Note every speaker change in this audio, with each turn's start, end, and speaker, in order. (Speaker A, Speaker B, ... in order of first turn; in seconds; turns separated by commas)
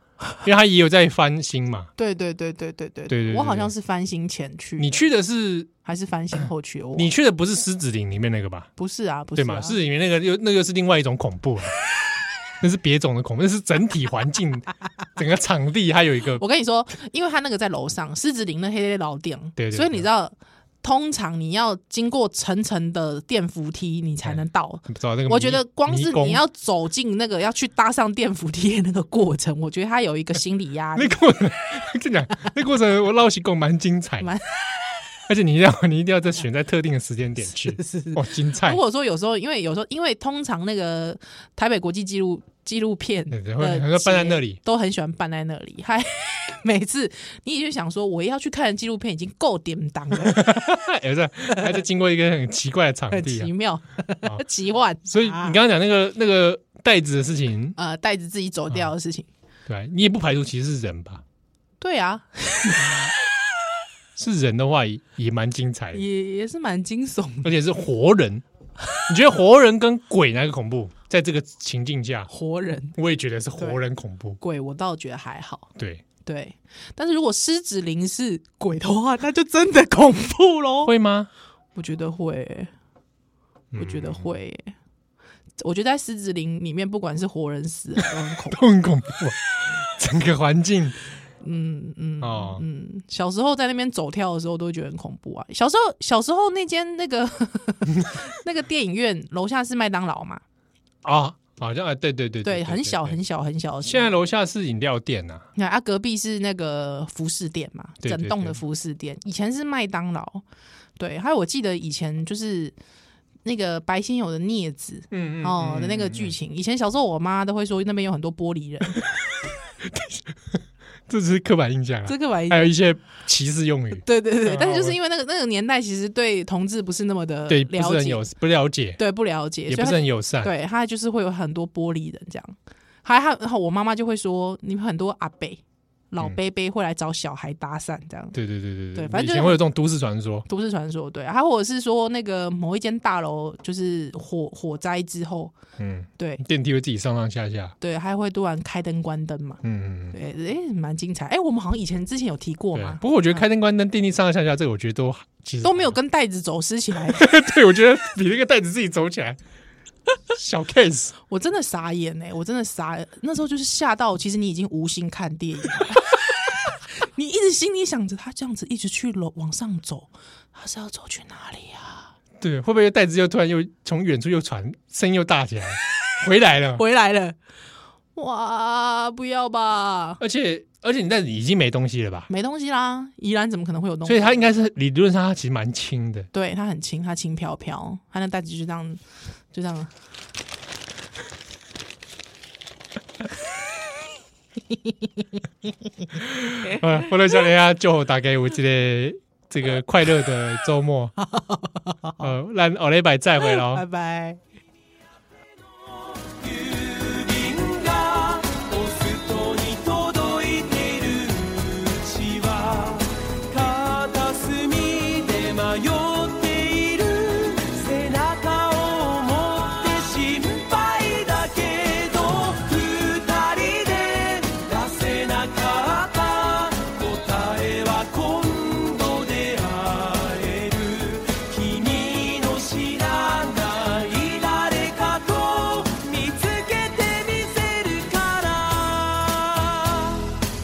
Speaker A: 0.4-1.9, Speaker B: 2.0-5.0, Speaker A: 3.1-3.7, Speaker A: 4.8-5.7, Speaker B: 5.8-7.1, Speaker A: 7.0-8.7, Speaker B: 8.8-9.8, Speaker A: 9.4-11.8, Speaker A: 12.6-16.4, Speaker B: 16.4-31.2, Speaker A: 19.6-20.1, Speaker A: 24.2-26.4, Speaker A: 30.9-34.3, Speaker B: 34.2-34.5, Speaker A: 35.3-38.8, Speaker B: 37.7-50.5, Speaker A: 43.3-44.6, Speaker A: 50.2-53.5, Speaker B: 53.1-55.6, Speaker A: 55.1-57.8, Speaker B: 57.8-59.3, Speaker A: 59.7-61.2, Speaker B: 61.8-63.0, Speaker A: 64.2-66.0, Speaker B: 65.9-67.5, Speaker A: 67.4-68.4, Speaker A: 69.1-72.3, Speaker B: 72.3-73.0, Speaker A: 73.0-74.4, Speaker B: 74.4-75.7, Speaker A: 75.8-76.0, Speaker B: 76.2-80.9, Speaker A: 80.8-81.3, Speaker B: 81.8-82.7, Speaker A: 83.7-84.3, Speaker B: 83.8-84.8, Speaker B: 85.6-88.7, Speaker A: 88.5-91.0, Speaker B: 91.4-100.4, Speaker A: 92.2-92.6, Speaker A: 101.0-103.2, Speaker B: 102.4-104.2, Speaker A: 103.8-105.5, Speaker B: 105.5-110.4, Speaker A: 108.0-108.6, Speaker B: 111.0-112.8, Speaker B: 113.5-119.1, Speaker A: 115.1-116.4, Speaker A: 119.8-125.0, Speaker B: 122.1-122.7, Speaker B: 124.0-128.2, Speaker A: 127.5-129.0, Speaker B: 129.0-138.4, Speaker A: 129.7-130.5, Speaker A: 138.3-140.5, Speaker B: 138.9-139.6, Speaker B: 140.5-145.5, Speaker A: 145.8-147.7, Speaker B: 146.2-146.4, Speaker B: 147.8-149.6, Speaker A: 149.6-150.2, Speaker B: 150.1-153.4, Speaker A: 152.7-156.0, Speaker B: 155.6-157.3, Speaker A: 157.1-159.4, Speaker A: 160.3-161.2, Speaker B: 161.3-172.1, Speaker A: 172.4-176.8, Speaker B: 176.8-177.4, Speaker B: 178.2-180.2, Speaker A: 180.2-182.3, Speaker B: 182.3-184.4, Speaker A: 184.1-186.3, Speaker B: 186.3-189.0, Speaker B: 189.5-189.9, Speaker A: 196.2-201.1, Speaker B: 201.2-202.3, Speaker A: 202.2-203.8, Speaker B: 203.5-204.4, Speaker C: 206.2-240.4